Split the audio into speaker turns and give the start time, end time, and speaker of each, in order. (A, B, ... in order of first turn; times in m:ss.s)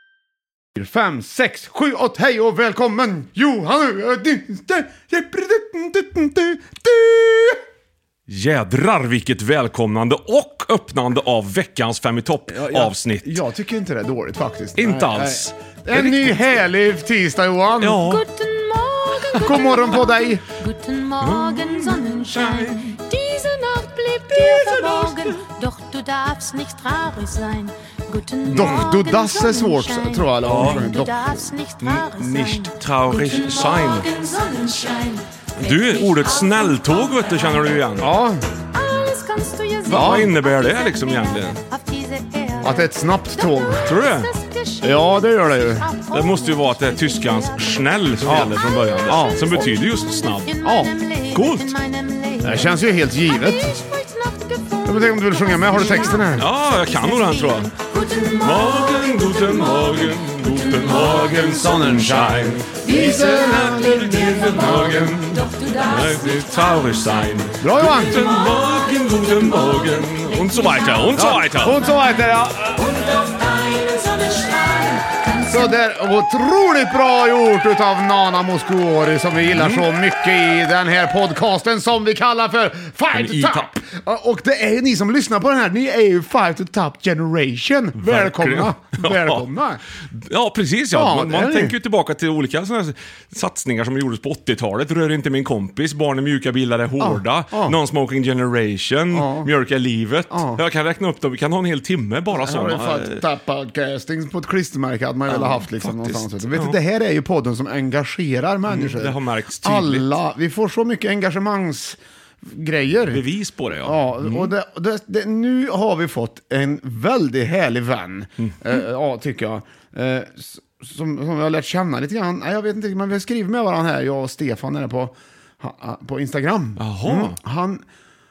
0:00.7-0:07.6 A
0:08.3-0:13.4 B
0:12.5-0:18.0 A
0:14.8-0:16.5 B
0:17.8-0:18.2 B
0:18.0-0:37.8 C
0:19.4-0:20.4 A
0:21.2-0:23.0 B
0:24.3-0:25.3 B
0:28.5-0:31.1 A
0:28.5-0:28.9 B
0:30.4-0:30.8 B
0:31.8-0:34.1 B
0:35.6-0:38.1 B
0:38.0-0:38.4 A
0:38.7-1:01.5 C
0:39.9-0:40.3 A
0:39.9-0:41.6 B
0:42.6-0:43.9 A
0:43.8-0:44.3 B
0:44.8-0:45.9 A
0:46.1-0:50.5 B
0:48.2-0:49.7 A
0:50.6-0:50.9 A
0:51.3-0:51.7 B
0:52.4-0:53.7 A
0:54.8-0:56.5 A
0:55.8-0:57.7 B
0:58.4-1:11.8 B
1:01.0-1:05.1 A
1:02.9-1:03.2 C
1:05.3-1:06.5 C
1:07.6-1:08.2 A
1:10.6-1:10.9 C
1:11.1-1:13.0 A
1:13.4-1:14.9 C
1:15.4-1:29.8 A
1:19.6-1:19.8 B
1:23.1-1:23.7 B
1:28.0-1:29.4 B
1:30.1-1:43.2 B
1:30.9-1:31.7 A
1:37.0-1:37.8 A
1:39.1-1:39.5 A
1:40.3-1:40.6 A
1:42.3-1:53.2 A
1:45.3-1:46.8 B
1:48.7-1:50.2 B
1:53.1-1:54.5 B
1:53.8-2:07.8 A
1:58.4-1:58.7 B
2:06.8-2:07.4 B